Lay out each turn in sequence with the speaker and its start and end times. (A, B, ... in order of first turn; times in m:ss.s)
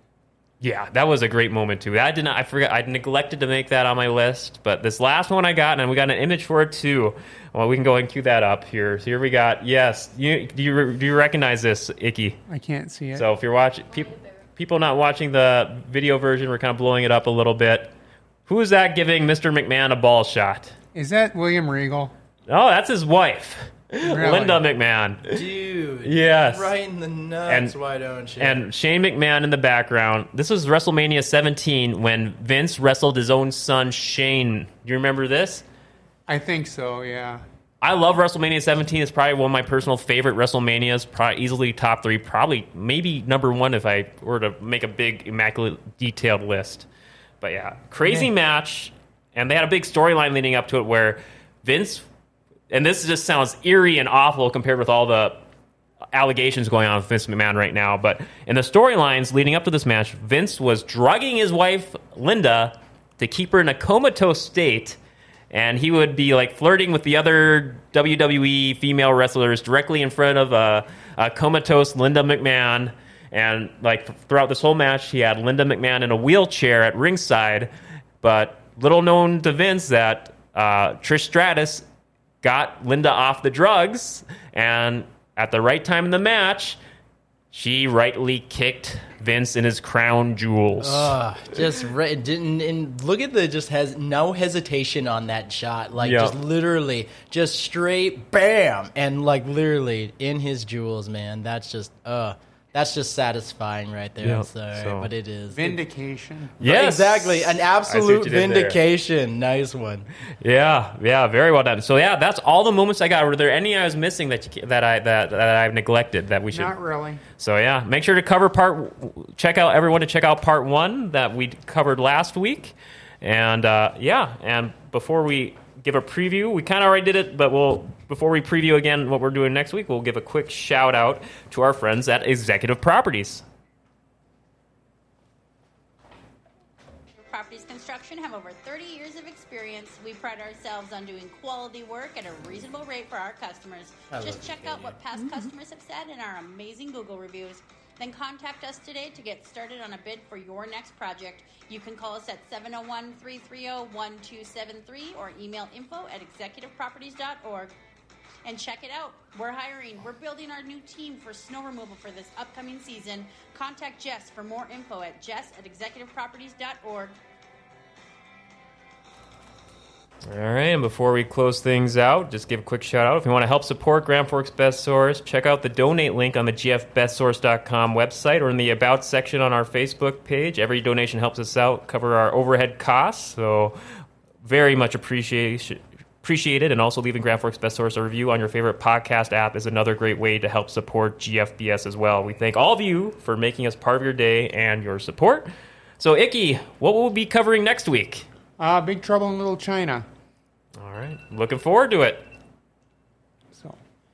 0:00.6-0:12.4 A
0:12.5-0:13.2 B
0:13.1-0:17.9 A
0:18.5-0:20.7 A
0:21.0-0:22.1 B
0:22.5-0:25.4 A
0:24.0-0:24.6 B
0:25.3-0:28.7 C
0:26.0-0:26.7 A
0:27.5-0:27.8 A
0:28.4-0:35.6 A
0:36.3-0:37.4 B
0:37.8-0:46.9 A
0:47.4-0:52.0 A
0:52.7-0:55.5 A
0:56.1-1:05.0 A
1:05.5-1:17.7 A
1:18.2-1:21.8 A
1:22.4-1:26.8 A
1:27.5-1:31.2 A
1:30.8-1:45.8 C
1:36.0-1:36.4 A
1:44.2-1:45.1 A
1:45.5-1:46.5 B
1:46.6-1:48.8 A
1:46.6-1:50.1 C
1:50.4-1:56.8 A
1:56.5-1:57.2 B
1:57.4-2:13.4 A
2:17.2-2:37.7 D
2:24.1-2:25.0 C
2:38.4-2:47.1 D
2:50.2-3:03.8 A
3:04.4-3:18.2 A
3:18.6-3:20.0 B
3:20.8-3:22.2 A
3:23.5-3:23.8 B